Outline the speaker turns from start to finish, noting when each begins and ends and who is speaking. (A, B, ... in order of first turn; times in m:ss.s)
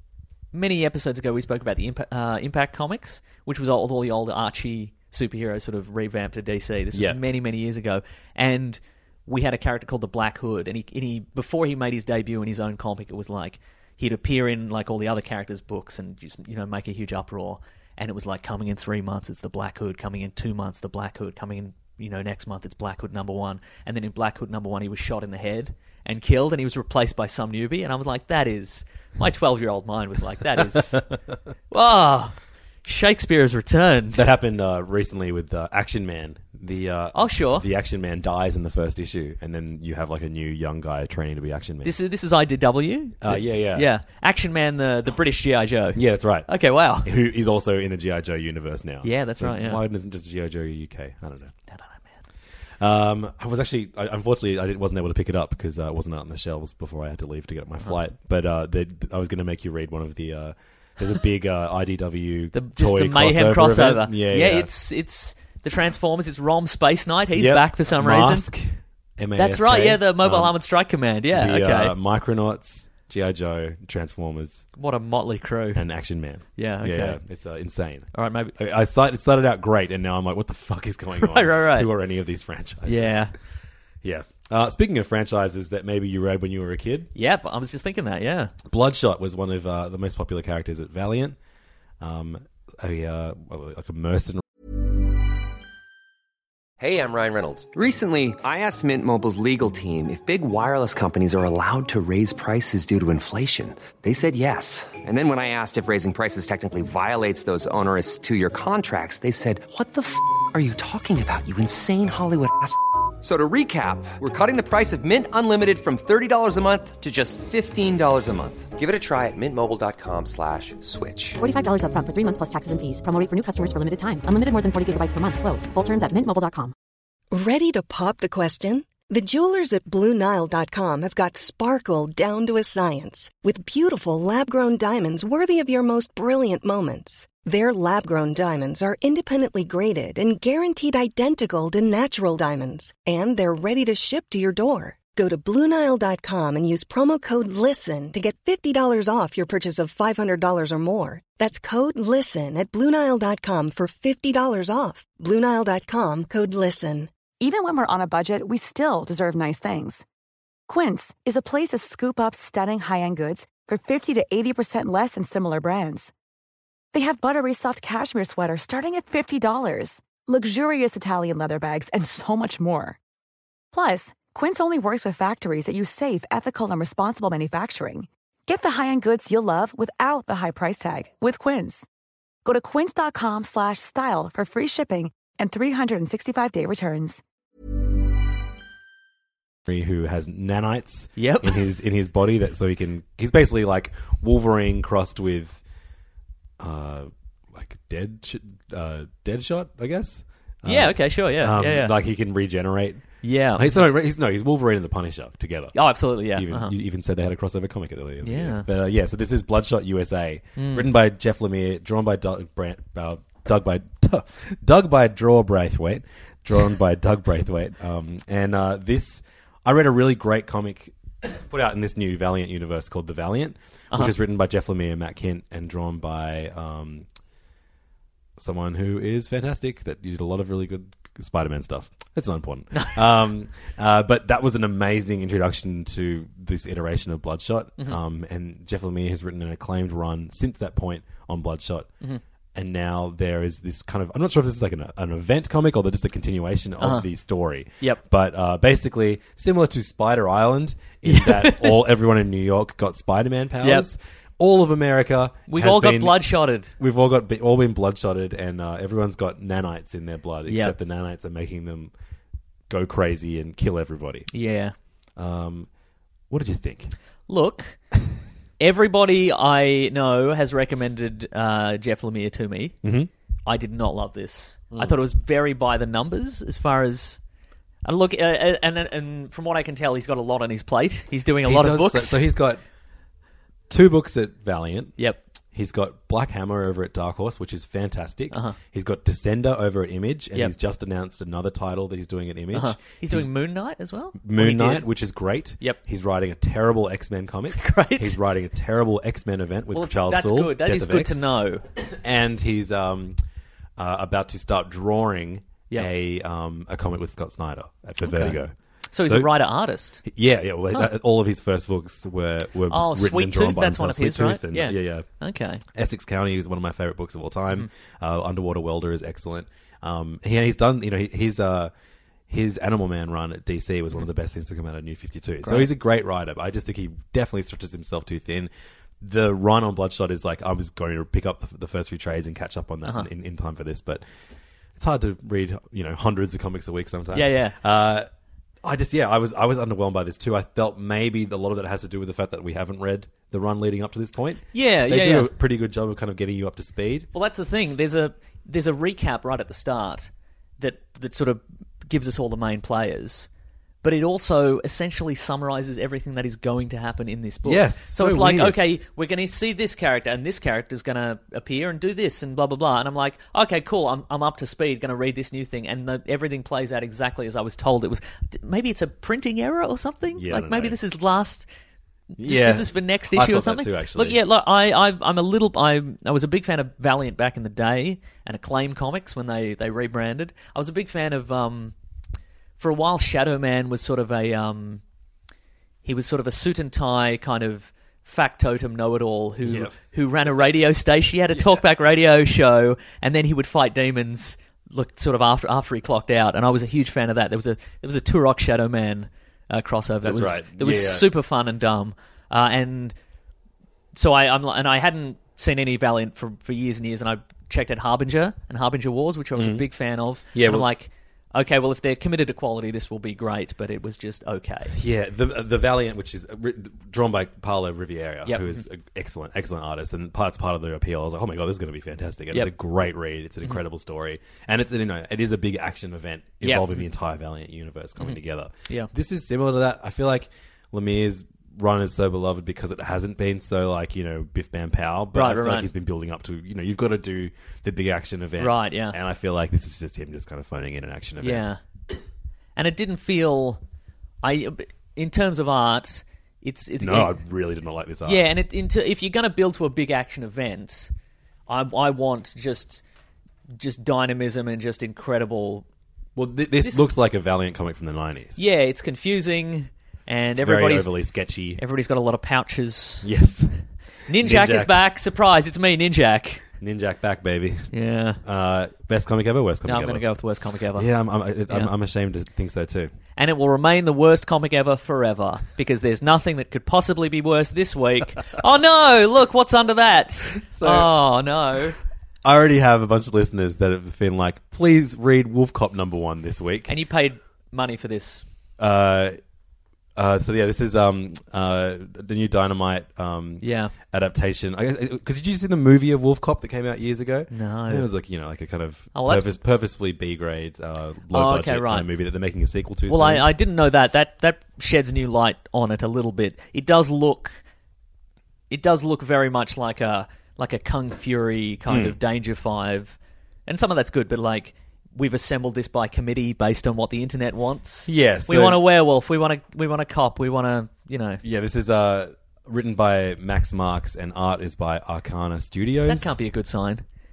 0:00.5-0:31.0 A
0:06.9-0:07.2 B
0:30.6-0:31.0 B
0:31.7-0:34.2 A
0:34.1-0:41.9 B
0:37.1-0:37.6 A
0:41.8-0:47.1 A
0:43.2-0:43.9 B
0:45.9-0:51.5 B
0:49.0-0:49.8 A
0:51.7-0:52.1 A
0:52.8-1:04.7 B
1:02.5-1:08.5 A
1:07.3-1:10.5 B
1:09.4-1:11.9 A
1:11.3-1:14.6 B
1:14.8-1:15.8 A
1:15.7-1:23.3 B
1:16.6-1:17.2 A
1:18.1-1:18.5 A
1:21.2-1:21.9 A
1:22.8-1:23.3 A
1:24.0-1:27.1 B
1:27.1-1:28.5 A
1:28.7-1:31.4 B
1:32.0-1:34.4 B
1:36.8-2:01.4 C
2:01.4-2:06.7 D
2:07.3-2:37.1 E
2:37.4-2:40.0 F
2:40.7-2:46.1 F
2:46.9-2:53.0 F
2:53.7-3:01.8 F
3:02.4-3:07.2 F
3:09.6-3:15.6 B
3:11.2-3:11.6 A
3:16.6-3:47.1 B
3:20.6-3:21.9 A
3:23.2-3:23.8 A
3:25.7-3:26.7 A
3:28.2-3:28.6 A
3:30.6-3:30.9 A
3:48.4-4:01.9 B
3:52.7-3:53.0 A
4:02.5-4:21.9 B
4:06.8-4:07.1 A
4:11.0-4:11.8 A
4:13.6-4:13.9 A
4:15.5-4:16.7 A
4:20.5-4:20.8 A
4:22.7-4:24.3 B
4:24.3-4:24.7 A
4:25.2-4:25.7 B
4:26.3-4:26.9 B
4:27.3-4:27.8 A
4:28.6-4:32.8 A
4:32.8-4:33.1 B
4:33.4-4:37.2 A
4:34.7-4:35.0 B
4:37.8-4:42.2 A
4:41.4-4:42.6 B
4:43.7-4:45.0 B
4:45.5-4:53.3 B
4:52.5-4:54.9 A
4:54.1-5:01.2 B
4:57.5-4:58.2 A
4:59.7-5:01.6 A
5:01.8-5:03.2 B
5:03.8-5:09.3 B
5:08.0-5:08.4 A
5:08.9-5:10.0 A
5:10.0-5:15.1 B
5:12.7-5:15.6 A
5:15.7-5:21.7 B
5:22.3-5:28.5 B
5:25.4-5:25.7 A
5:29.0-5:34.0 B
5:34.8-5:38.1 B
5:37.1-5:37.6 A
5:38.6-5:47.1 B
5:44.5-5:45.3 A
5:47.1-5:53.3 A
5:53.8-6:11.5 A
5:57.4-5:58.6 B
6:10.1-6:10.8 B
6:12.1-6:21.7 A
6:12.2-6:14.2 B
6:22.6-6:24.8 A
6:25.8-6:42.9 A
6:29.4-6:29.7 B
6:31.3-6:31.8 B
6:40.0-6:41.1 B
6:43.9-6:54.7 A
6:49.3-6:49.7 B
6:50.3-6:50.7 B
6:54.7-7:21.4 B
6:58.2-6:58.6 A
7:06.4-7:06.8 A
7:15.1-7:15.7 A
7:18.4-7:19.0 A
7:21.2-7:21.6 A
7:22.6-7:23.6 A
7:24.2-7:27.2 A
7:26.8-7:28.3 B
7:28.0-7:30.9 A
7:31.5-7:32.8 A
7:33.6-7:35.6 A
7:36.2-7:38.4 B
7:36.6-7:36.9 A
7:38.4-7:40.9 A
7:40.4-7:41.6 B
7:41.6-7:43.1 A
7:43.0-7:44.8 B
7:44.1-7:46.4 A
7:46.6-7:47.7 B
7:47.7-7:48.2 A
7:48.2-7:50.1 B
7:49.6-7:50.9 A
7:50.7-7:52.9 B
7:53.2-8:01.8 A
8:00.5-8:01.0 B
8:02.2-8:06.7 B
8:06.7-8:08.2 A
8:08.6-8:09.2 B
8:10.0-8:23.3 B
8:13.4-8:13.7 A
8:17.3-8:17.9 A
8:18.9-8:19.3 A
8:21.1-8:21.9 A
8:22.9-8:27.4 A
8:28.5-8:41.2 A
8:31.7-8:32.0 B
8:37.8-8:38.6 B
8:41.2-8:46.2 B
8:45.8-8:46.8 A